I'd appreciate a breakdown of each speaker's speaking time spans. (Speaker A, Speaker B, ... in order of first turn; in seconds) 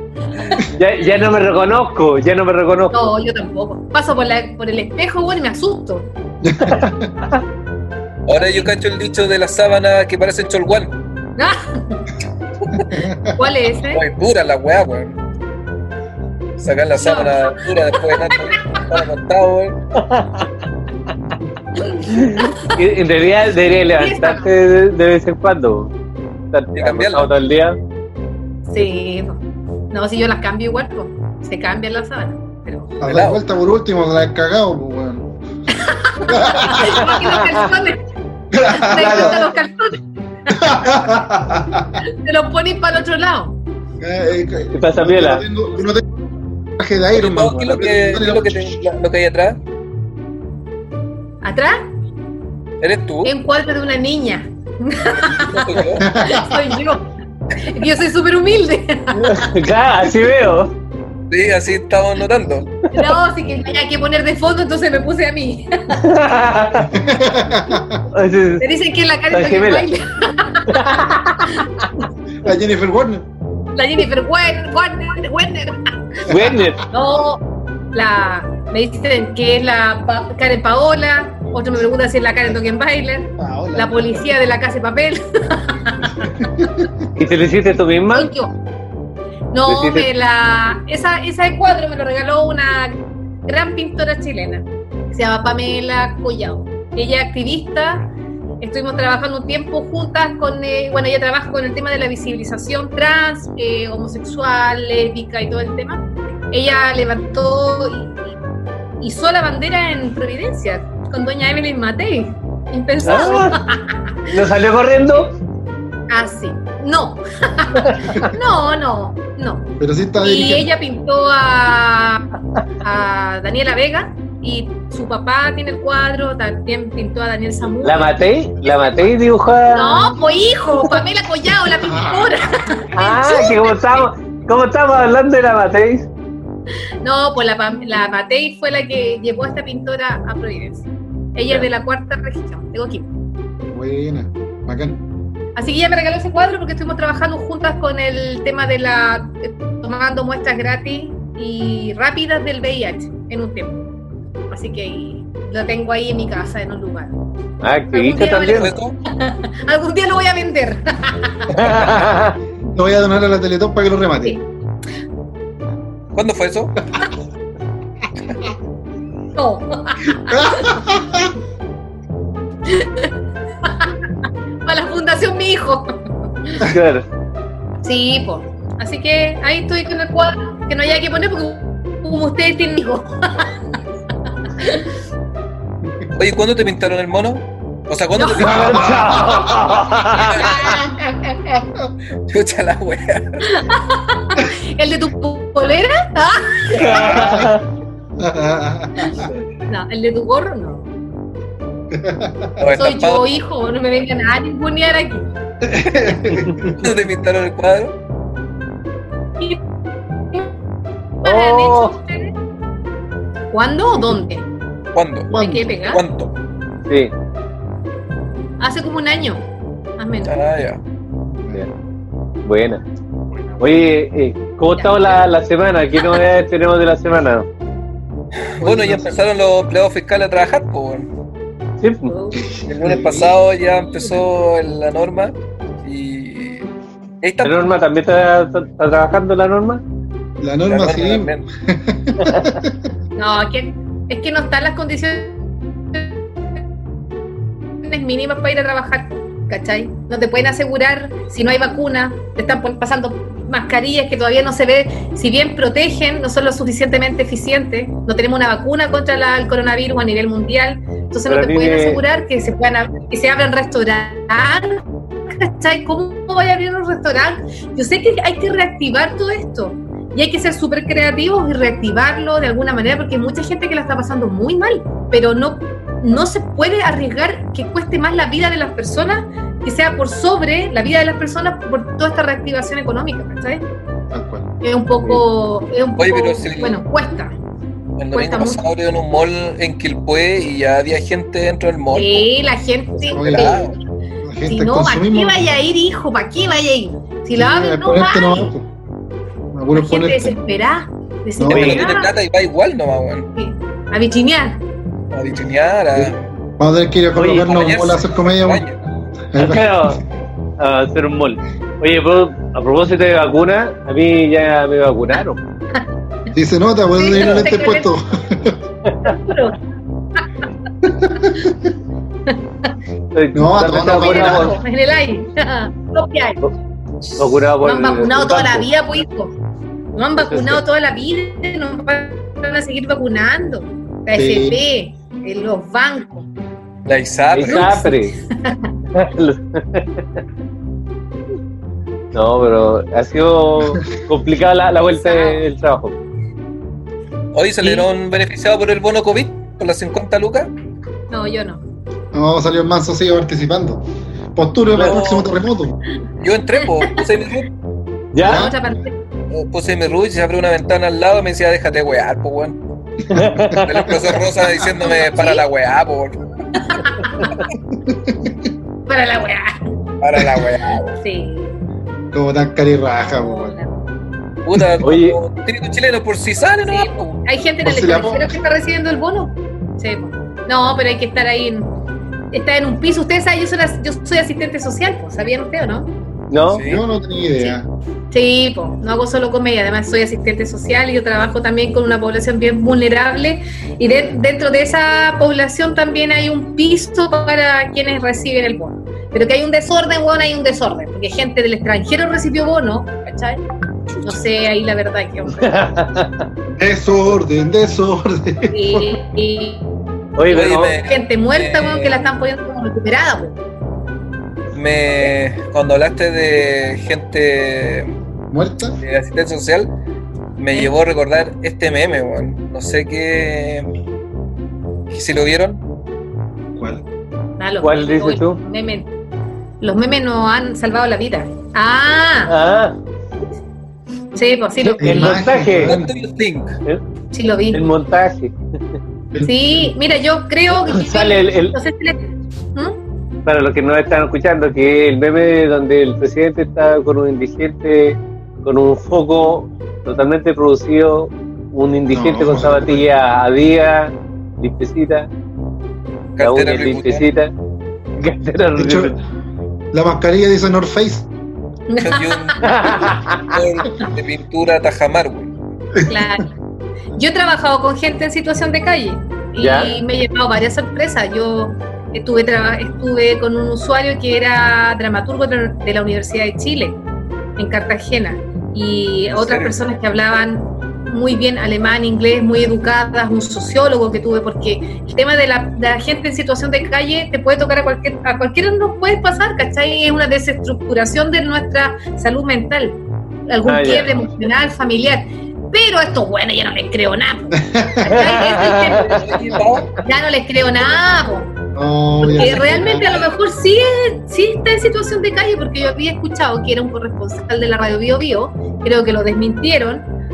Speaker A: 0.4-0.6, 2.9-6.1, 8.4-8.7, 11.4-12.1, 13.3-14.0, 17.0-18.8, 21.8-22.8, 23.9-24.5, 28.7-33.0, 35.8-38.0, 38.6-41.0, 42.0-43.5, 51.4-51.8, 53.2-57.0, 57.6-59.5, 62.9-66.0, 68.6-71.7, 73.7-76.2, 76.9-86.5, 88.1-88.5, 89.5-98.1, 98.6-108.2, 109.0-113.9, 116.1-122.2, 122.8-128.1, 128.6-129.1, 129.7-134.1, 137.0-143.1, 145.6-153.8, 154.5-157.2, 157.9-161.7, 169.3-170.9, 172.7-173.1, 173.6-173.9, 174.6-175.9, 177.8-183.5, 184.6-184.9, 188.1-188.7, 190.3-190.8, 193.4-197.2, 199.7-200.9, 202.8-205.3, 211.2-212.3, 213.5-214.5, 215.4-216.0, 218.6-219.4, 220.0-220.4, 224.7-225.2, 232.1-232.5, 243.2-245.4, 247.8-283.7, 284.6-287.4, 288.1-288.6, 291.9-293.8, 294.4-298.5, 299.7-302.1, 303.4-304.6, 316.9-317.9, 319.0-319.6, 322.3-322.7, 323.7-326.4, 327.6-329.3, 329.9-336.3, 337.4-338.7, 344.9-345.4, 347.6-347.9, 351.1-351.6, 358.2-358.9, 364.8-365.4, 366.6-367.3, 368.9-369.5, 371.0-371.6, 373.0-373.7, 376.6-381.7, 382.3-385.9, 388.1-403.4, 404.0-405.4, 408.5-409.7, 410.8-413.4, 427.4-428.9, 429.6-432.3, 434.1-435.1, 437.1-437.6, 439.2-442.8, 461.7-462.6, 465.9-466.3, 466.9-476.8, 477.4-501.3, 502.1-509.9
Speaker B: 0.8-3.1, 6.7-7.4, 20.0-20.5, 22.0-25.9, 26.5-27.8, 44.7-45.4, 59.1-60.7, 66.0-66.9, 68.1-68.6, 69.3-69.8, 70.7-71.5, 76.3-76.8, 87.1-88.3, 89.7-90.1, 113.0-113.6, 114.3-115.3, 117.9-118.2, 127.8-130.2, 133.0-136.1, 157.6-158.8, 161.5-162.4, 176.6-177.0, 188.4-190.5, 196.7-197.6, 211.2-211.9, 216.9-217.1, 222.4-222.8, 223.6-227.5, 231.8-232.1, 237.4-239.8, 242.2-242.5, 261.3-262.0, 301.5-301.9, 307.1-307.7, 309.4-310.0, 310.6-315.4, 318.9-319.1, 323.1-324.6, 327.2-328.7, 330.2-330.6, 337.3-338.1, 338.9-340.2, 342.1-345.9, 354.7-355.0, 358.1-358.5, 363.1-364.1, 374.8-375.2, 386.3-386.6, 405.3-406.2, 410.2-410.8, 427.6-428.4, 432.3-432.8, 434.6-435.8, 437.5-438.3, 440.6-441.5, 443.2-455.1, 456.2-457.3, 458.0-458.9, 462.4-463.2, 469.4-469.8, 493.4-493.9, 497.9-499.0
Speaker C: 6.4-7.1, 12.9-13.3, 33.0-35.3, 36.2-37.2, 38.5-39.5, 40.5-42.0, 44.0-46.1, 46.8-48.8, 56.0-56.8, 66.8-68.0, 72.4-73.3, 83.4-84.2, 86.2-87.1, 119.8-120.7, 131.7-132.3, 143.7-145.0, 161.6-162.1, 162.7-164.4, 170.3-171.3, 188.4-189.7, 196.8-197.6, 198.2-199.3, 201.9-202.7, 205.6-206.9, 215.3-215.8, 221.2-221.6, 223.3-223.7, 228.6-229.1, 232.3-233.4, 240.4-242.9, 284.1-284.5, 293.1-293.7, 294.2-295.6, 297.3-298.7, 299.5-300.4, 301.4-301.8, 305.9-308.6, 309.3-310.0, 316.3-318.6, 320.8-321.7, 323.3-324.6, 334.1-334.6, 352.1-353.8, 354.3-355.8, 358.2-358.7, 363.1-363.6, 367.8-368.4, 372.1-373.5, 377.6-378.4, 386.6-387.7, 406.5-409.0, 418.3-418.8, 426.5-426.8, 434.8-435.9, 439.1-439.7, 451.9-452.8, 458.6-459.0, 459.7-461.1, 465.8-466.1, 497.4-497.9, 501.5-503.0
Speaker D: 8.2-10.9, 13.9-15.2, 16.6-19.8, 26.8-27.3, 33.0-33.4, 47.1-49.6, 52.8-53.3, 55.1-56.0, 61.3-62.7, 158.5-158.9, 166.1-166.7, 186.1-189.1, 190.1-190.8, 192.3-193.4, 202.6-203.4, 206.6-207.9, 214.9-216.3, 220.2-220.8, 228.6-231.1, 232.7-236.7, 237.2-237.7, 240.7-241.4, 286.0-286.8, 288.0-292.3, 293.1-293.8, 301.5-303.3, 305.1-306.2, 307.4-308.8, 336.9-337.7, 347.3-350.5, 354.8-355.3, 356.2-357.5, 359.3-362.6, 363.6-366.2, 370.0-371.0, 374.4-377.2, 386.5-386.8, 410.3-412.1, 414.5-417.9, 418.8-419.7, 420.4-423.7, 424.9-425.6, 435.6-436.5, 456.1-457.1, 461.8-465.3, 479.1-479.5, 498.8-499.7, 502.3-503.1